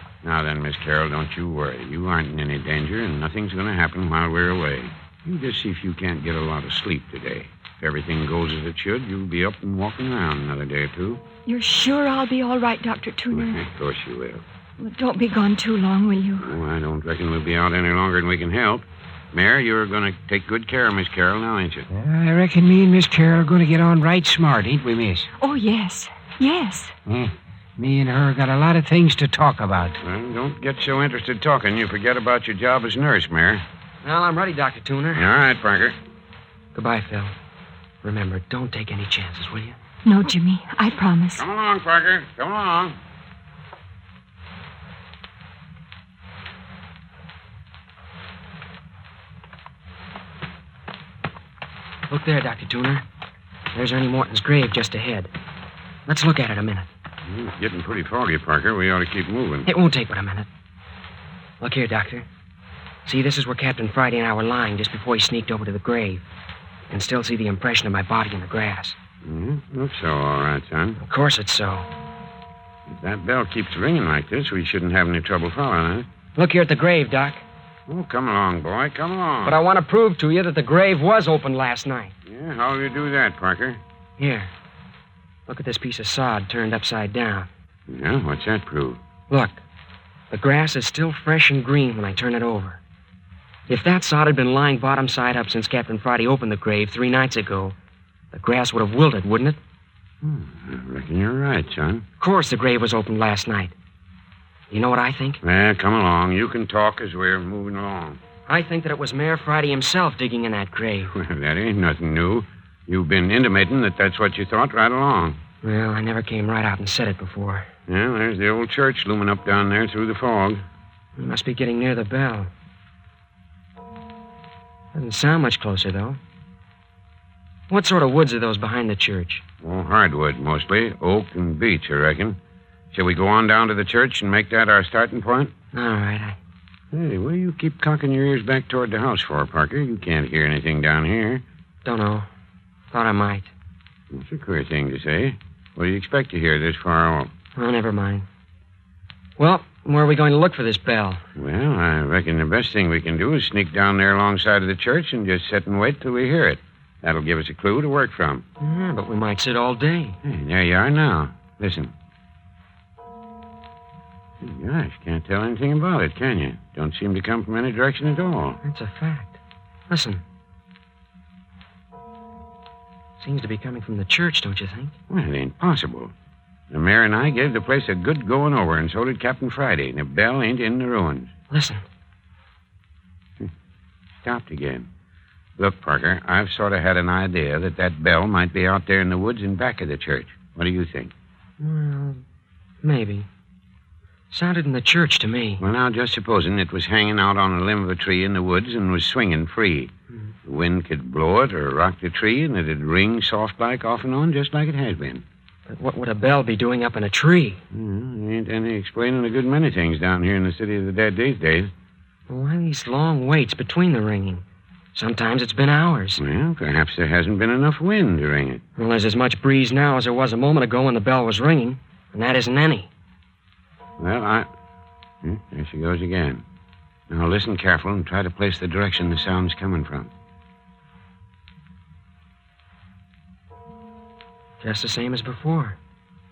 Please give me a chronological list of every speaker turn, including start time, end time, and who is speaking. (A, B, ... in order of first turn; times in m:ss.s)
0:00.2-0:11.2 A
0:11.4-0:13.6 B
0:13.3-0:14.4 A
0:14.8-0:16.5 B
0:16.4-0:21.9 A
0:21.9-0:25.3 C
0:25.4-0:26.9 B
0:27.0-0:30.0 C
0:30.0-0:33.6 A
0:34.0-0:35.3 D
0:35.1-0:36.0 A
0:36.7-0:37.3 D
0:38.0-0:39.8 D
0:40.0-0:41.4 B
0:41.4-0:43.0 A
0:52.1-0:53.0 D
0:53.7-0:55.3 D
0:56.0-0:56.9 D
0:57.3-0:59.7 A
0:59.6-1:00.5 D
1:01.6-1:02.3 D
1:03.0-1:06.2 D
1:06.9-1:09.0 D
1:09.2-1:11.0 A
1:11.0-1:11.9 D
1:12.9-1:16.1 A
1:16.4-1:17.4 D
1:17.9-1:19.6 A
1:19.4-1:22.1 D
1:22.2-1:23.8 A
1:24.2-1:24.5 D
1:25.5-1:27.5 D
1:27.9-1:29.0 A
1:29.3-1:29.6 D
1:30.3-1:32.8 D
1:33.7-1:37.7 D
1:38.3-1:39.6 D
1:40.2-1:42.0 A
1:42.2-1:43.7 D
1:44.7-1:45.4 D
1:45.4-1:48.2 A
1:48.5-1:51.1 D
1:51.1-1:55.4 A
1:55.6-1:57.7 D
1:57.9-2:00.6 A
2:01.2-2:02.5 D
2:04.9-2:06.2 D
2:07.7-2:09.4 D
2:09.6-2:12.4 A
2:12.9-2:15.6 A
2:15.7-2:16.4 D
2:16.9-2:21.4 A
2:21.8-2:22.3 D
2:22.9-2:23.5 D
2:24.1-2:27.3 A
2:27.6-2:28.3 D
2:29.4-2:31.2 D
2:31.4-2:38.4 A
2:38.6-2:40.2 D
2:40.2-2:41.9 A
2:44.4-2:48.6 A
2:48.6-2:49.4 D
2:49.9-2:50.2 D
2:53.2-2:54.9 D
2:55.1-2:56.1 A
2:56.7-3:01.3 A
3:01.5-3:01.8 D
3:04.2-3:04.9 A
3:05.6-3:11.1 A
3:11.6-3:12.2 D
3:12.8-3:13.3 D
3:14.3-3:15.6 D
3:15.6-3:19.9 A
3:20.4-3:25.2 A
3:25.7-3:27.6 D
3:27.7-3:31.7 A
3:32.3-3:34.4 D
3:34.9-3:36.2 D
3:36.2-3:38.6 A
3:38.8-3:42.9 D
3:44.0-3:44.5 A
3:45.2-3:46.4 A
3:47.1-3:50.1 A
3:54.6-3:55.8 D